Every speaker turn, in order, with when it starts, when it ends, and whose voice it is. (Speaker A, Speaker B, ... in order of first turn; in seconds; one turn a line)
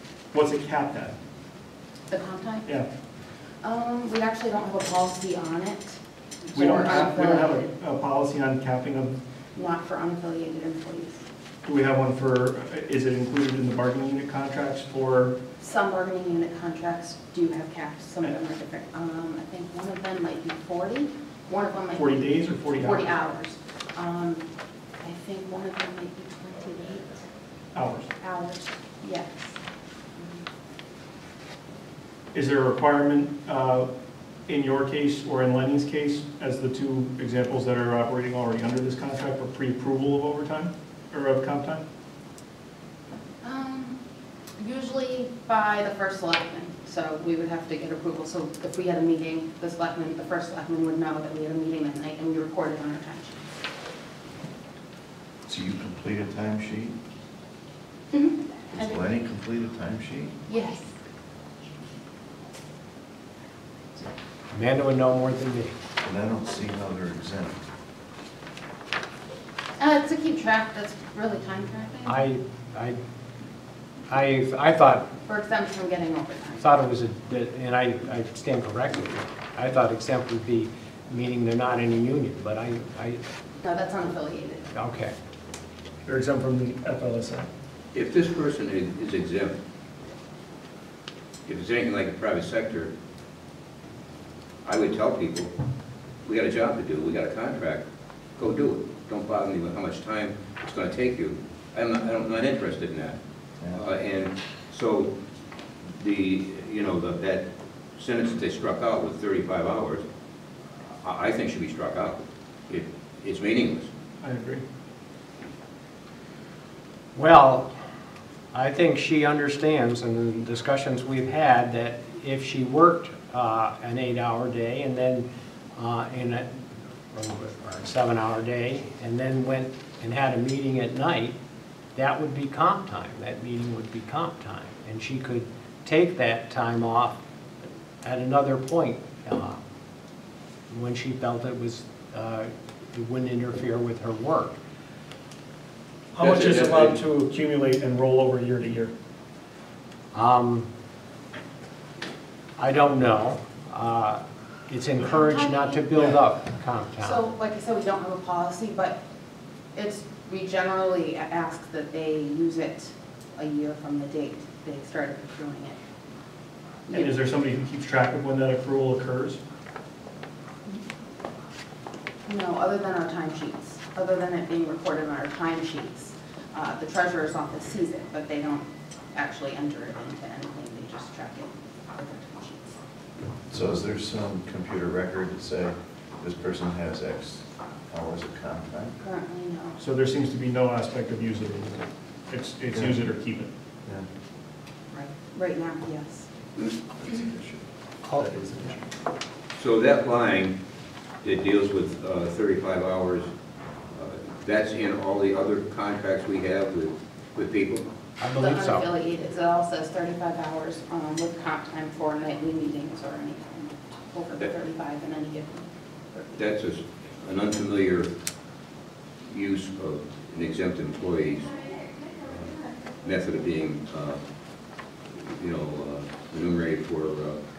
Speaker A: 0.3-1.2
Speaker B: 2.1-2.7
Speaker B: 3.6-7.7
Speaker A: 6.5-9.2
Speaker B: 9.6-11.2
Speaker A: 11.7-15.4
Speaker B: 15.6-24.4
Speaker A: 21.9-23.1
Speaker B: 25.0-27.2
Speaker A: 27.7-28.1
Speaker B: 28.2-29.6
Speaker B: 30.2-30.4
Speaker A: 32.3-33.9
Speaker A: 34.5-41.8
Speaker B: 43.4-44.0
Speaker B: 44.6-53.5
Speaker C: 55.5-57.0
Speaker B: 58.1-59.0
Speaker C: 58.7-60.4
Speaker B: 60.5-60.9
Speaker D: 64.5-65.8
Speaker C: 66.0-67.6
Speaker B: 69.8-72.2
Speaker D: 72.1-73.0
Speaker D: 74.1-75.0
Speaker B: 75.2-76.7
Speaker D: 76.6-83.2
Speaker B: 83.6-84.7
Speaker D: 84.7-85.1
Speaker A: 86.0-87.5
Speaker E: 87.9-89.6
Speaker E: 91.5-92.9
Speaker E: 94.6-95.5
Speaker E: 96.2-97.8
Speaker E: 98.4-103.2
Speaker E: 103.7-105.1
Speaker E: 106.0-110.0
Speaker E: 111.0-113.9
Speaker A: 114.2-114.6
Speaker D: 117.2-117.7
Speaker D: 118.5-131.4
Speaker D: 131.9-137.2
Speaker D: 138.0-139.6
Speaker D: 140.7-144.6
Speaker A: 146.1-148.9
Speaker E: 146.2-147.0
Speaker D: 150.1-150.7
Speaker D: 152.6-157.2
Speaker B: 155.0-156.2
Speaker B: 157.0-159.0
Speaker B: 159.8-165.8
Speaker A: 166.9-169.4
Speaker B: 172.3-182.8
Speaker C: 183.5-189.0
Speaker B: 189.0-189.8
Speaker A: 189.8-193.5
Speaker C: 192.7-193.0
Speaker B: 194.9-196.3
Speaker C: 197.0-198.8
Speaker E: 199.6-200.6
Speaker E: 201.2-203.3
Speaker E: 203.9-207.9
Speaker D: 208.2-208.9
Speaker B: 208.4-216.4
Speaker E: 216.4-218.1
Speaker E: 219.3-224.2
Speaker E: 225.2-227.4